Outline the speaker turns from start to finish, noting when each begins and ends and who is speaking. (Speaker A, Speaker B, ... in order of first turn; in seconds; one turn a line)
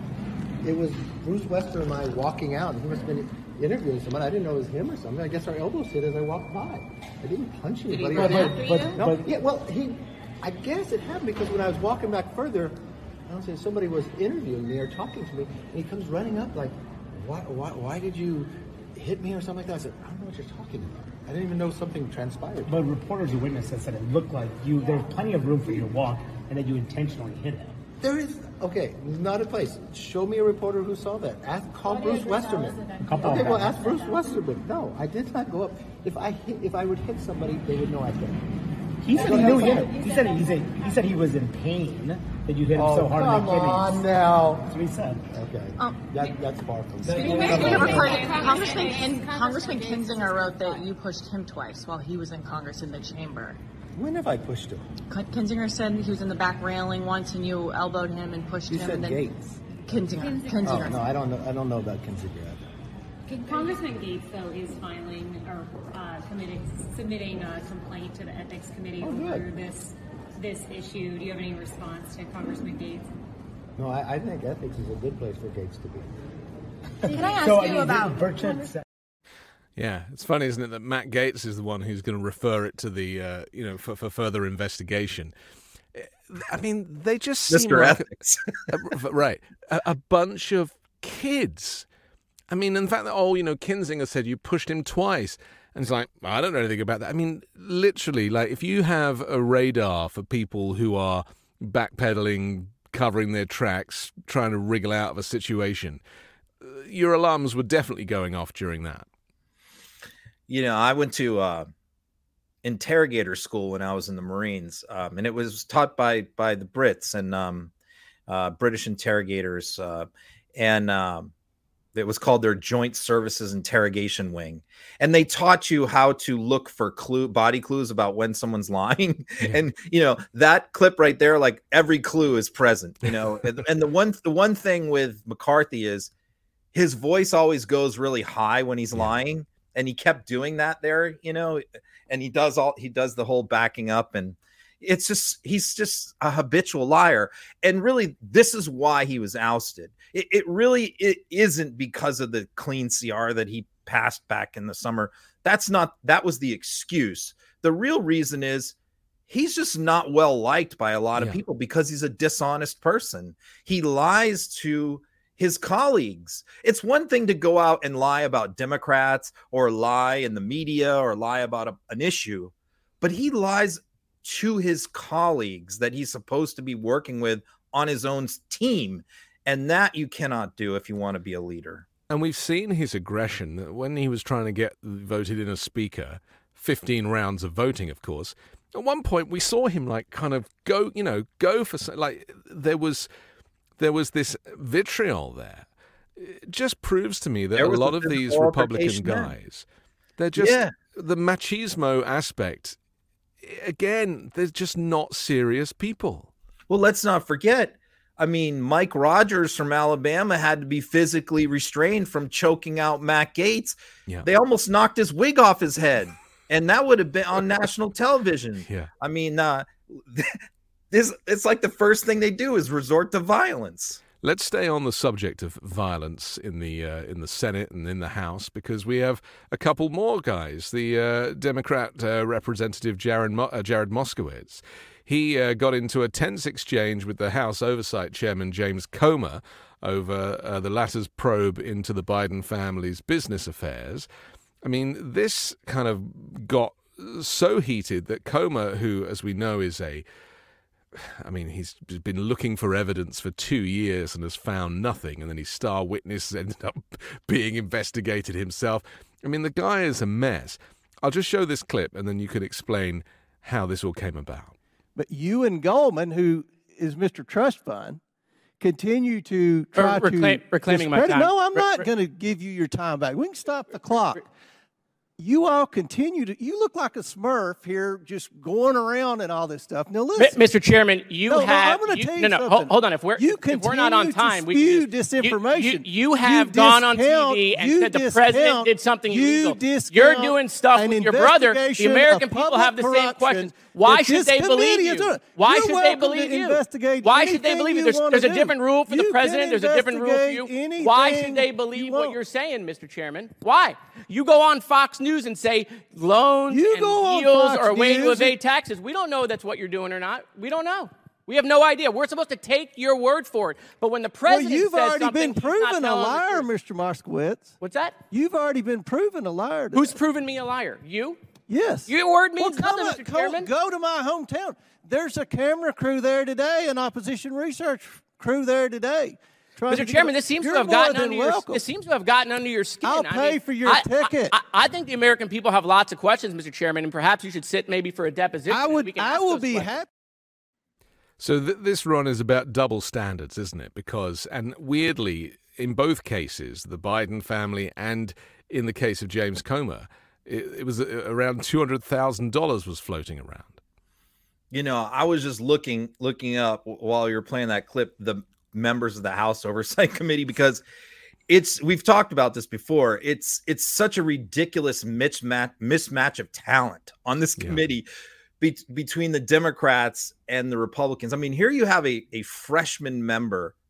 Speaker A: 0.6-22.8
Speaker B: 7.9-8.9
Speaker C: 8.1-9.3
Speaker C: 22.7-27.8
Speaker A: 28.0-38.5
Speaker B: 31.9-34.2
Speaker C: 33.0-33.8
Speaker C: 39.0-44.1
Speaker A: 39.1-40.0
Speaker A: 42.7-44.7
Speaker C: 44.7-45.3
Speaker A: 45.3-48.2
Speaker C: 47.1-47.9
Speaker B: 47.1-50.9
Speaker D: 47.2-53.6
Speaker A: 54.0-54.9
Speaker D: 55.1-59.3
Speaker A: 58.7-59.4
Speaker D: 59.9-61.0
Speaker B: 60.2-60.9
Speaker A: 60.6-62.6
Speaker B: 63.3-73.1
Speaker A: 69.0-69.5
Speaker A: 73.8-76.1
Speaker C: 77.2-78.8
Speaker E: 79.8-85.3
Speaker E: 86.0-91.9
Speaker F: 87.5-88.4
Speaker E: 92.5-106.0
Speaker E: 106.6-109.1
Speaker F: 110.5-111.7
Speaker F: 112.6-117.7
Speaker F: 118.3-121.3
Speaker F: 122.0-136.1
Speaker F: 136.7-158.8
Speaker F: 159.3-181.9
Speaker E: 161.2-161.4
Speaker E: 182.1-193.1
Speaker E: 193.8-199.7
Speaker F: 197.6-199.3
Speaker E: 200.2-202.8
Speaker F: 200.4-200.7
Speaker E: 203.4-206.3
Speaker F: 206.7-220.4
Speaker E: 218.7-218.9
Speaker F: 220.9-224.0
Speaker E: 224.2-244.1
Speaker E: 244.6-250.1
Speaker E: 250.9-264.6
Speaker G: 265.0-268.0
Speaker G: 268.6-274.2
Speaker H: 269.7-271.9
Speaker G: 275.2-280.5
Speaker H: 280.2-316.5
Speaker G: 281.3-302.2
Speaker G: 306.5-308.4
Speaker G: 314.3-317.5
Speaker H: 317.6-318.0
Speaker G: 318.1-320.0
Speaker H: 319.7-321.2
Speaker G: 321.5-331.6
Speaker H: 321.9-323.5
Speaker H: 329.7-339.7
Speaker G: 332.8-334.4
Speaker G: 338.5-339.9
Speaker E: 341.2-353.6
Speaker F: 354.5-360.6
Speaker F: 361.3-367.9
Speaker F: 368.4-373.5